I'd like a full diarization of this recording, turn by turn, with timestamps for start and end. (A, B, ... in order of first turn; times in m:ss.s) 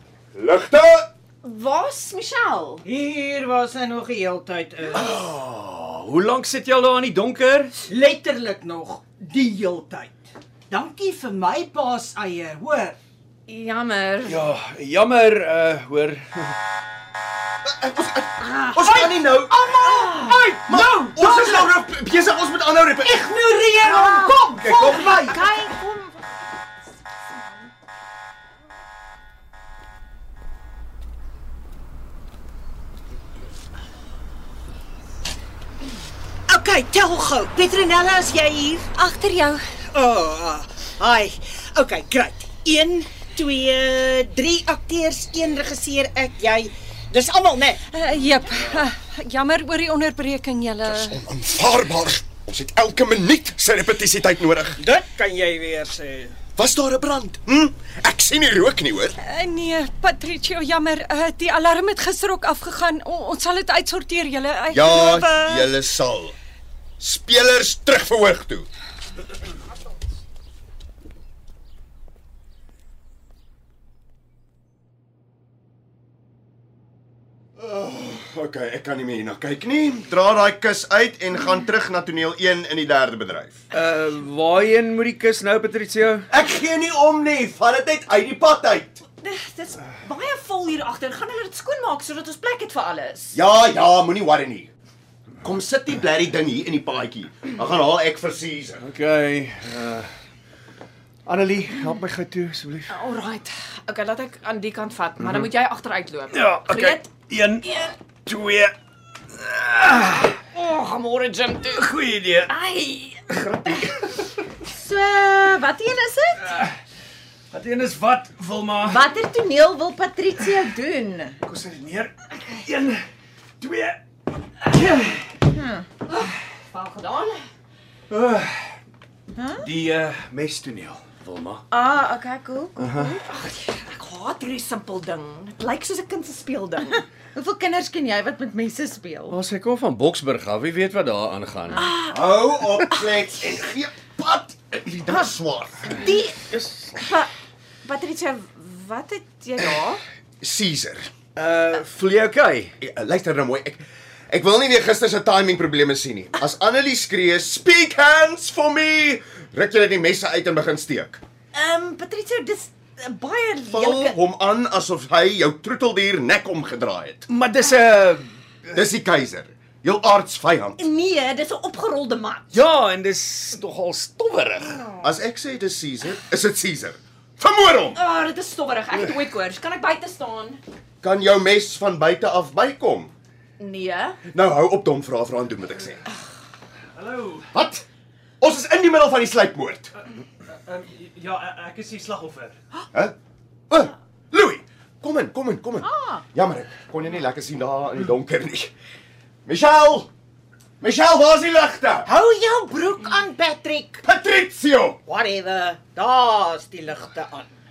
0:00.3-0:01.1 A
0:01.4-0:02.8 B
0:02.8-0:05.1 C
0:04.9-0:07.7 D
0:07.9-0:13.0 C
0:13.5-0:14.4 B
0:14.2-0:16.6 D
0:17.6-0:23.3 A
0:18.8-0:21.6 C
0:23.0-0:25.7 C
0:23.9-0:26.2 E
0:24.6-0:25.3 A
0:36.5-0:38.9 C
0:38.9-0:39.6 F
0:39.9-0:47.8 C
0:47.9-0:51.2 F
0:51.0-0:54.8 A
0:54.8-0:56.3 C
0:56.6-0:59.2 A
0:59.2-1:05.7 F
1:04.7-1:06.4 A
1:07.0-1:08.7 A
1:17.6-1:23.6 A
1:23.7-1:26.3 D
1:26.3-1:29.0 A
1:29.2-1:33.4 B
1:33.3-1:34.7 A
1:35.4-1:38.8 A
1:38.8-1:40.1 D
1:41.2-1:42.9 D
1:42.9-1:47.1 B
1:46.3-1:48.7 D
1:49.3-1:50.4 D
1:50.5-1:51.8 B
1:51.7-1:52.5 D
1:52.5-1:53.2 B
1:53.3-1:54.1 D
1:54.7-1:56.5 E
1:56.4-1:56.7 D
1:57.5-1:59.1 D
1:58.8-2:01.4 E
2:01.4-2:03.0 D
2:03.6-2:04.0 D
2:04.7-2:05.2 D
2:05.5-2:05.9 E
2:06.1-2:07.4 B
2:08.1-2:08.8 D
2:09.4-2:09.6 E
2:09.6-2:11.6 D
2:11.7-2:13.2 E
2:12.8-2:13.2 D
2:13.2-2:17.0 B
2:17.3-2:19.4 E
2:19.3-2:21.9 D
2:21.7-2:22.3 B
2:22.1-2:26.1 A
2:25.9-2:27.0 D
2:26.0-2:26.3 B
2:27.0-2:27.3 B
2:27.8-2:30.0 B
2:30.4-2:31.1 A
2:31.3-2:32.7 D
2:32.8-2:41.2 A
2:41.5-2:44.1 B
2:43.7-2:47.3 A
2:47.3-2:48.3 D
2:48.7-2:50.8 A
2:50.8-2:52.6 B
2:52.5-2:54.9 D
2:55.0-2:58.0 A
2:57.9-3:00.6 B
3:01.0-3:03.1 A
3:03.6-3:04.2 B
3:04.3-3:06.0 A
3:06.9-3:07.5 G
3:07.5-3:07.8 A
3:08.4-3:09.9 A
3:10.6-3:12.6 G
3:13.7-3:18.7 A
3:15.8-3:16.2 E
3:19.4-3:20.1 A
3:20.8-3:22.1 A
3:22.1-3:24.0 C
3:24.0-3:25.0 A
3:25.0-3:27.5 C